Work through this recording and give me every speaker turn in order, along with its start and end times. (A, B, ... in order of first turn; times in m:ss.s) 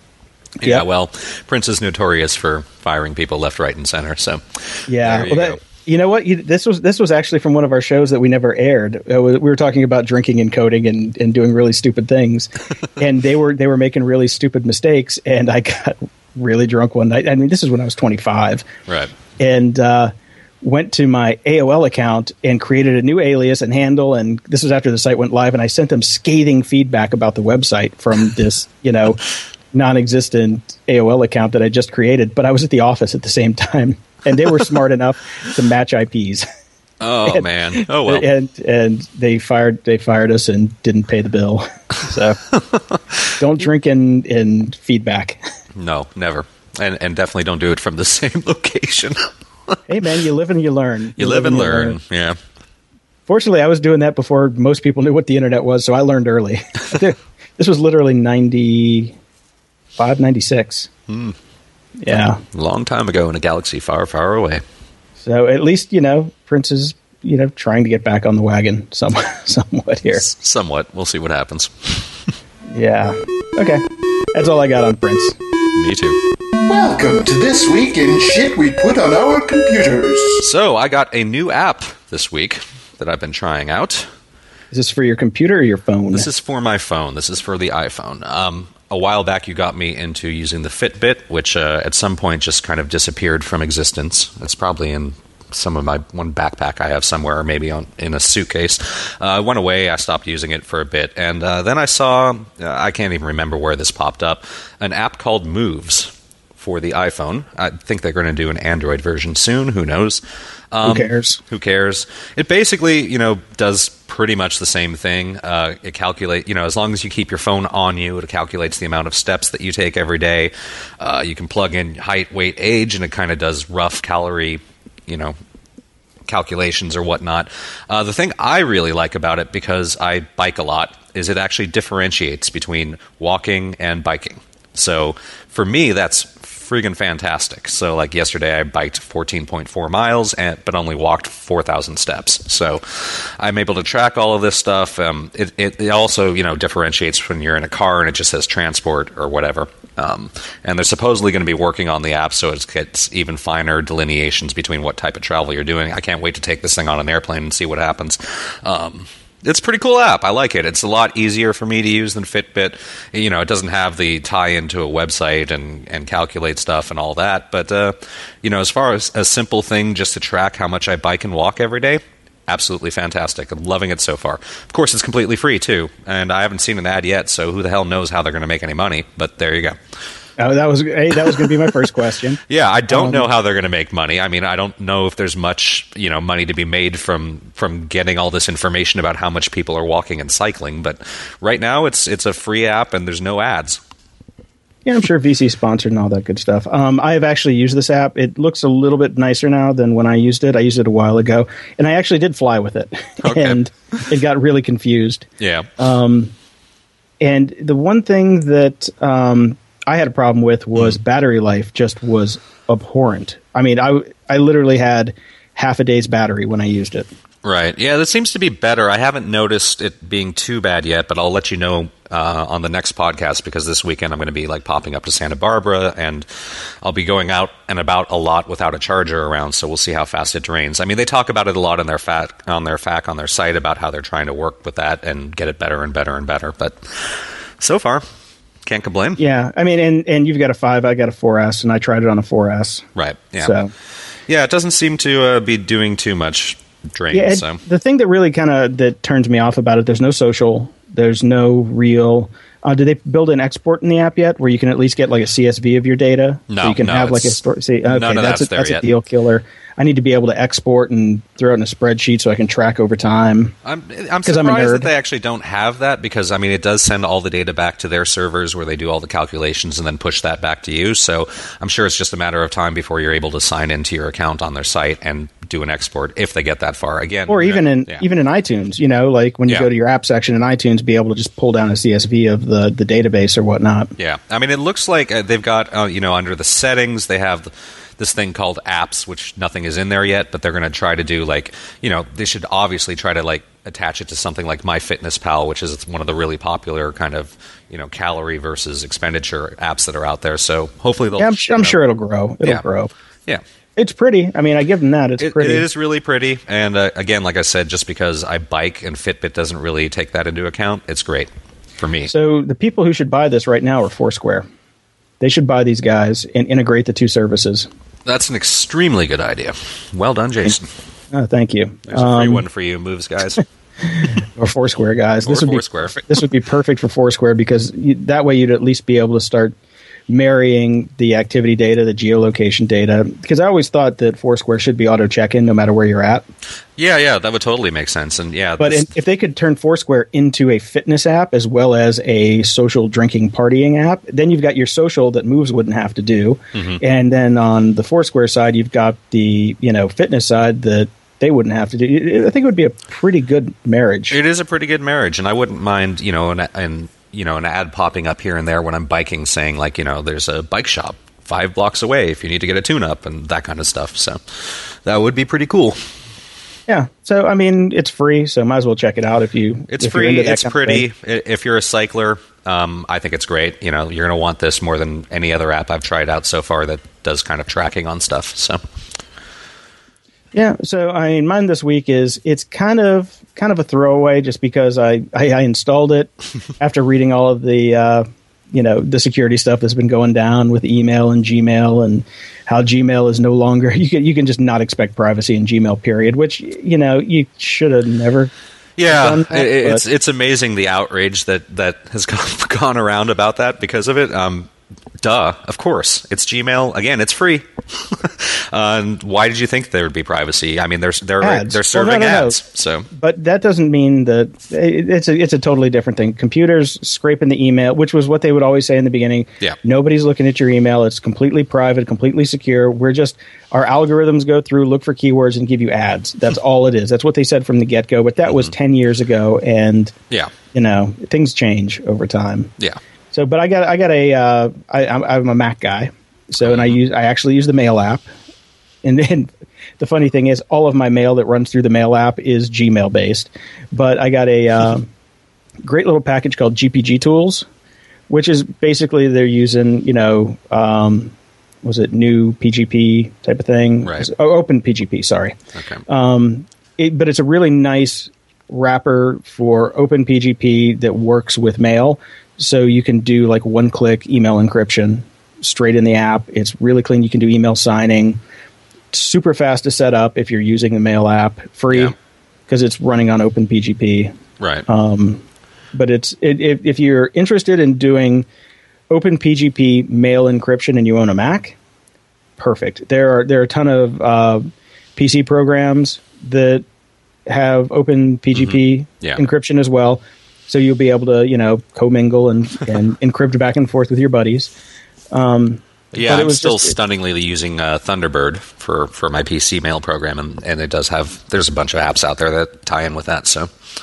0:00.6-0:05.6 A
0:04.9-0:18.6 B
0:18.9-0:19.1 A
0:19.4-0:29.2 B
0:29.7-0:36.4 B
0:37.0-0:38.2 A
0:37.3-0:42.4 B
0:42.7-0:43.0 A
0:43.4-0:45.4 B
0:45.8-0:49.8 A
0:49.9-0:52.0 B
0:51.2-0:52.4 A
0:53.3-0:59.2 B
1:00.0-1:00.9 B
1:01.1-1:01.3 A
1:02.0-1:02.4 B
1:02.1-1:04.6 A
1:05.2-1:10.3 B
1:10.1-1:12.1 A
1:12.7-1:15.4 B
1:15.7-1:16.2 A
1:16.7-1:20.4 C
1:20.4-1:24.1 A
1:24.7-1:26.2 B
1:26.1-2:05.3 A
1:50.8-1:51.4 B
2:06.3-2:59.8 A
3:00.4-3:03.2 B
3:02.5-3:13.8 A
3:14.8-3:25.3 B
3:23.2-3:23.6 A
3:25.4-3:25.7 A
3:25.8-3:26.3 B
3:27.2-3:37.1 B
3:37.4-3:58.0 A
3:58.6-3:59.2 A
3:59.2-4:02.8 B
4:03.0-4:03.6 A
4:03.4-4:03.7 B
4:04.3-4:07.6 A
4:07.1-4:23.5 B
4:16.5-4:18.9 A
4:23.6-4:38.0 A
4:24.2-4:24.9 B
4:37.3-4:43.9 B
4:44.0-5:01.8 A
5:01.2-5:02.9 B
5:03.8-5:05.6 B
5:05.2-5:12.1 A
5:12.1-5:14.4 B
5:15.2-5:17.7 B
5:18.0-5:20.7 A
5:21.1-5:22.4 B
5:21.9-5:23.4 A
5:23.9-5:29.5 B
5:25.2-5:26.1 A
5:30.1-5:36.2 B
5:36.8-5:38.9 A
5:38.6-5:54.2 B
5:46.5-5:46.8 A
5:54.1-6:05.8 A
6:06.7-6:10.8 B
6:09.7-6:18.6 A
6:20.3-6:38.3 B
6:38.8-6:44.5 A
6:38.8-6:39.8 B
6:45.0-6:52.9 A
6:51.2-7:09.9 B
7:10.5-7:12.5 B
7:13.1-7:18.1 B
7:16.4-7:16.7 A
7:18.8-7:24.9 B
7:25.6-7:27.4 B
7:28.1-7:35.3 B
7:33.8-7:34.1 A
7:35.5-7:35.8 A
7:35.9-7:48.2 B
7:48.9-7:51.9 B
7:52.5-7:54.1 B
7:54.4-7:54.6 A
7:54.7-7:58.2 B
7:58.9-8:01.6 B
8:02.4-8:06.6 B
8:07.3-8:14.5 B
8:08.3-8:09.2 A
8:15.1-8:16.7 B
8:15.9-8:23.5 A